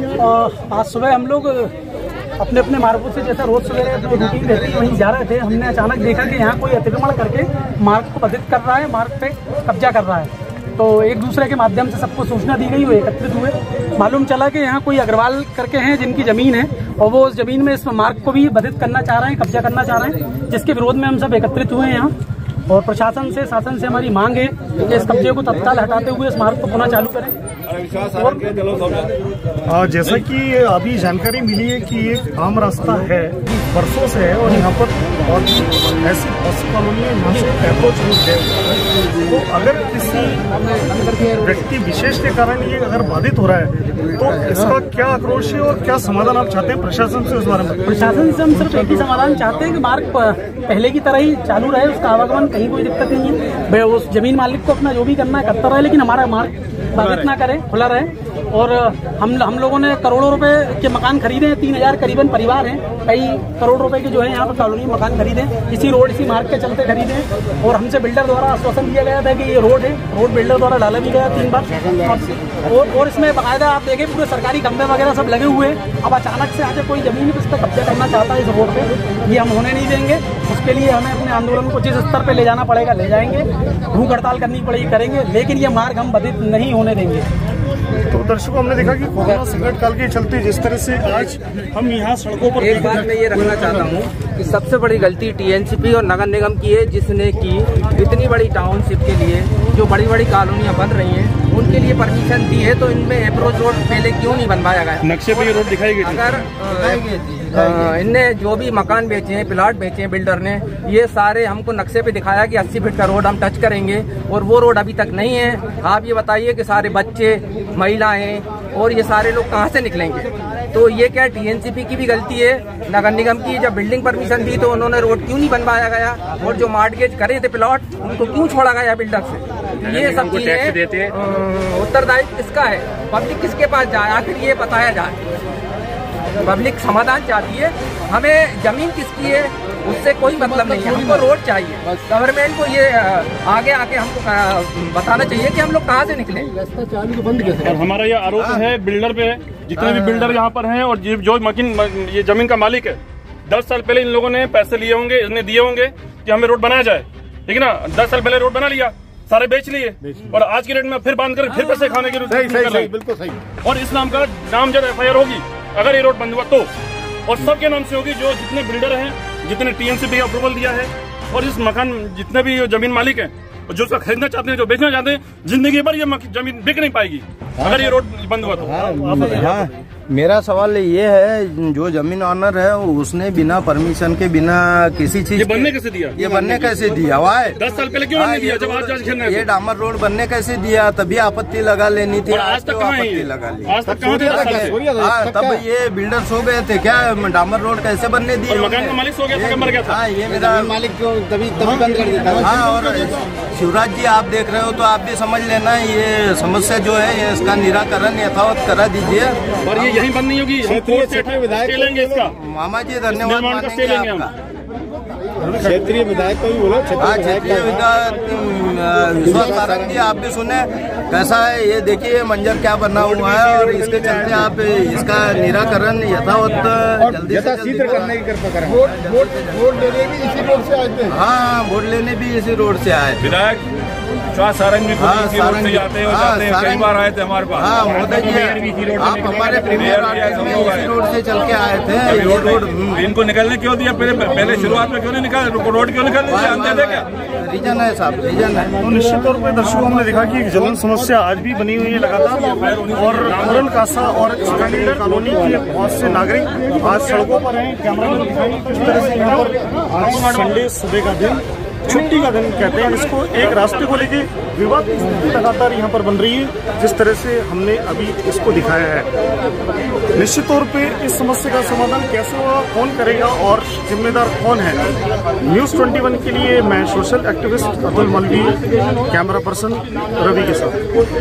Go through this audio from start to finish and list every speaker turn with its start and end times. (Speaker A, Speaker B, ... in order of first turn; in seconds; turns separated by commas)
Speaker A: 0.2-1.7, Speaker A: 2.4-22.1, Speaker A: 22.7-27.3, Speaker A: 28.0-28.6, Speaker B: 28.6-29.0, Speaker C: 29.6-40.5, Speaker C: 41.0-48.0, Speaker A: 47.9-87.2, Speaker C: 48.5-48.9, Speaker C: 88.1-93.4, Speaker D: 92.5-135.2, Speaker B: 105.0-106.2, Speaker E: 106.6-108.0, Speaker B: 129.9-131.1, Speaker D: 136.4-146.9, Speaker F: 147.0-147.5, Speaker B: 147.6-162.9, Speaker E: 148.3-148.7, Speaker E: 149.8-150.0, Speaker F: 162.3-163.4, Speaker B: 163.6-166.7, Speaker B: 167.3-178.8, Speaker E: 178.6-187.6, Speaker C: 178.7-179.7, Speaker B: 185.3-186.2, Speaker F: 186.2-186.6, Speaker B: 187.6-189.4, Speaker E: 188.1-200.8, Speaker B: 192.3-194.8, Speaker F: 193.9-195.6, Speaker B: 198.5-199.9, Speaker F: 200.3-202.8, Speaker E: 202.4-209.9, Speaker B: 209.6-212.3, Speaker F: 210.6-212.3, Speaker E: 212.3-214.3, Speaker B: 213.1-214.3, Speaker F: 215.4-217.8, Speaker E: 217.0-233.3, Speaker F: 219.3-220.0, Speaker F: 223.2-224.4, Speaker F: 227.0-231.1, Speaker G: 233.3-233.7, Speaker G: 234.3-237.5, Speaker E: 234.9-243.1, Speaker B: 237.9-239.8, Speaker G: 239.9-240.8, Speaker G: 242.1-247.0, Speaker B: 244.0-244.5, Speaker E: 246.3-248.8, Speaker C: 248.8-269.1, Speaker B: 252.4-253.7, Speaker B: 259.8-260.3, Speaker C: 270.1-274.9, Speaker C: 275.4-280.8